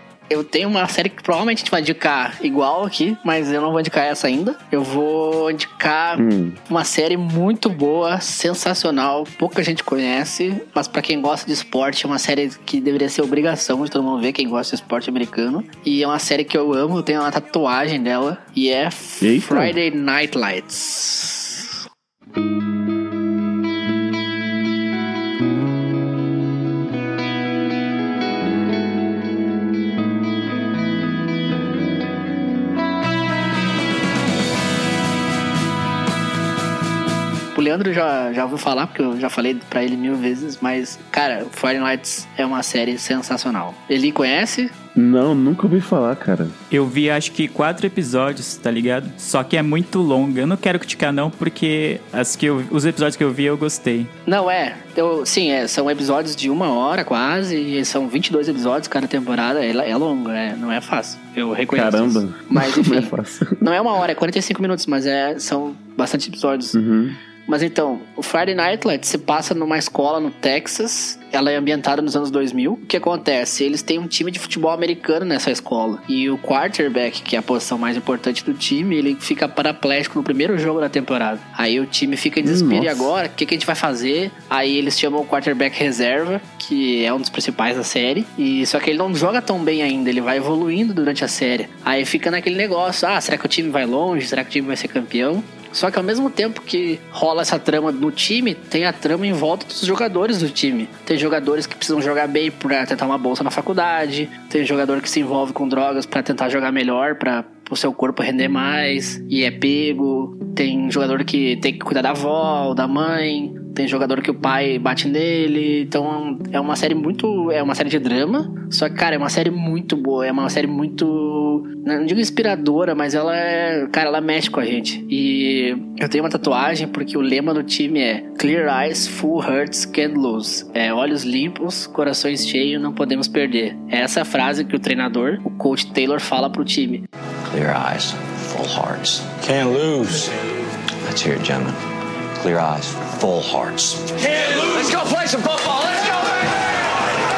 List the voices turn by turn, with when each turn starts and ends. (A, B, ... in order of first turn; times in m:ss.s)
0:00.3-0:21.8 A
0:06.2-0:06.6 B
0:19.2-0:19.8 B
0:37.5-0:44.7 A
0:45.0-0:46.6 B
0:46.7-0:54.1 C
0:54.3-1:06.8 A
1:01.7-1:03.7 B
1:06.7-1:07.2 B
1:07.5-2:17.0 A
1:22.4-1:23.1 B
2:17.4-2:19.5 D
2:19.4-2:20.3 E
2:21.0-2:21.8 D
2:22.4-2:24.1 D
2:24.2-2:26.3 E